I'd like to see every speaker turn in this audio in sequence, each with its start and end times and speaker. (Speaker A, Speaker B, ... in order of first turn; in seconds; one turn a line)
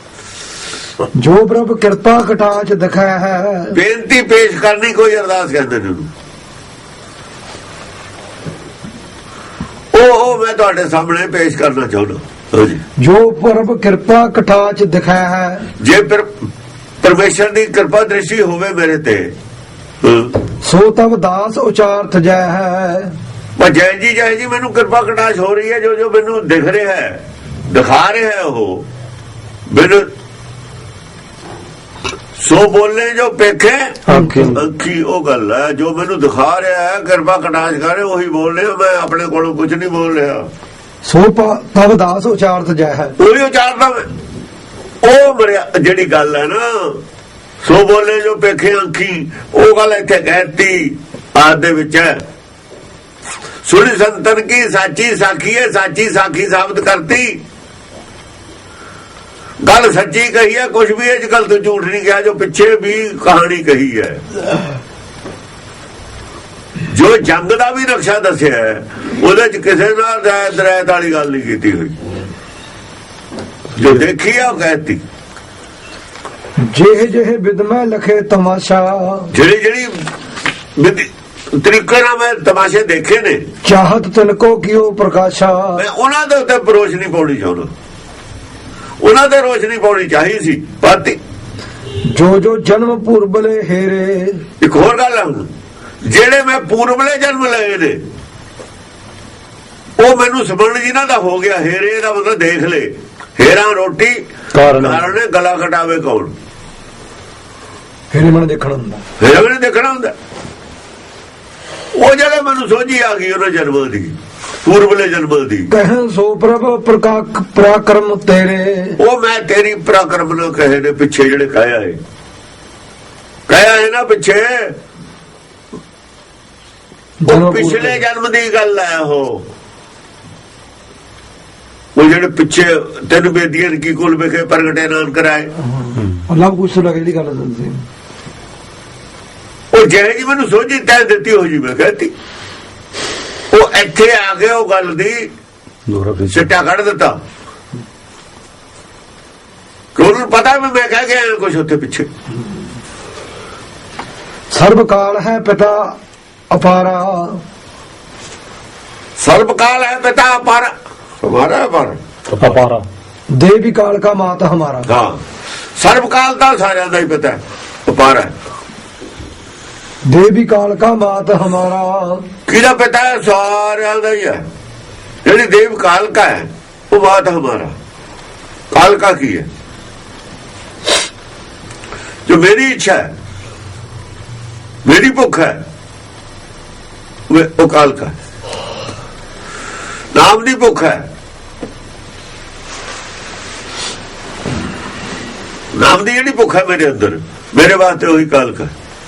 Speaker A: 1.2-3.8
Speaker B: 3.7-6.1
Speaker B: 9.9-12.8
Speaker A: 13.0-15.7
Speaker B: 15.8-16.4
Speaker B: 17.0-19.3
Speaker B: 20.0-20.4
Speaker A: 20.6-23.1
Speaker B: 23.6-28.9
Speaker B: 29.7-30.1
Speaker B: 32.4-40.5
Speaker C: 34.1-34.6
Speaker A: 34.1-34.6
Speaker A: 41.0-43.2
Speaker B: 43.2-44.1
Speaker B: 45.0-47.0
Speaker B: 47.6-52.2
Speaker B: 53.6-57.4
Speaker B: 59.6-64.2
Speaker B: 66.8-72.0
Speaker B: 73.8-75.0
Speaker A: 76.6-79.3
Speaker B: 79.3-80.0
Speaker B: 80.8-83.5
Speaker A: 83.6-85.8
Speaker B: 85.8-87.7
Speaker B: 89.0-91.2
Speaker A: 92.1-94.4
Speaker B: 94.6-95.5
Speaker B: 96.0-98.0
Speaker B: 100.0-106.3
Speaker C: 104.5-105.0
Speaker A: 108.1-109.0
Speaker B: 109.2-110.1
Speaker B: 112.0-115.7
Speaker A: 115.7-119.0
Speaker B: 119.0-122.0
Speaker B: 123.5-124.8
Speaker A: 127.2-128.0
Speaker B: 127.3-129.4
Speaker B: 132.0-135.5
Speaker A: 135.8-137.8
Speaker B: 139.7-142.1
Speaker B: 143.5-145.3
Speaker C: 145.9-146.5
Speaker B: 146.3-147.2
Speaker B: 149.9-152.1
Speaker A: 154.5-155.9
Speaker A: 156.5-157.4
Speaker B: 159.2-162.0
Speaker C: 162.3-162.9
Speaker A: 163.3-164.9
Speaker B: 164.9-165.2
Speaker B: 165.8-168.3
Speaker A: 170.1-172.2
Speaker B: 172.5-174.4
Speaker B: 175.2-177.8
Speaker B: 178.7-179.5
Speaker B: 182.3-183.1
Speaker B: 184.8-185.6
Speaker B: 187.3-188.1
Speaker B: 190.1-191.1
Speaker B: 195.7-198.7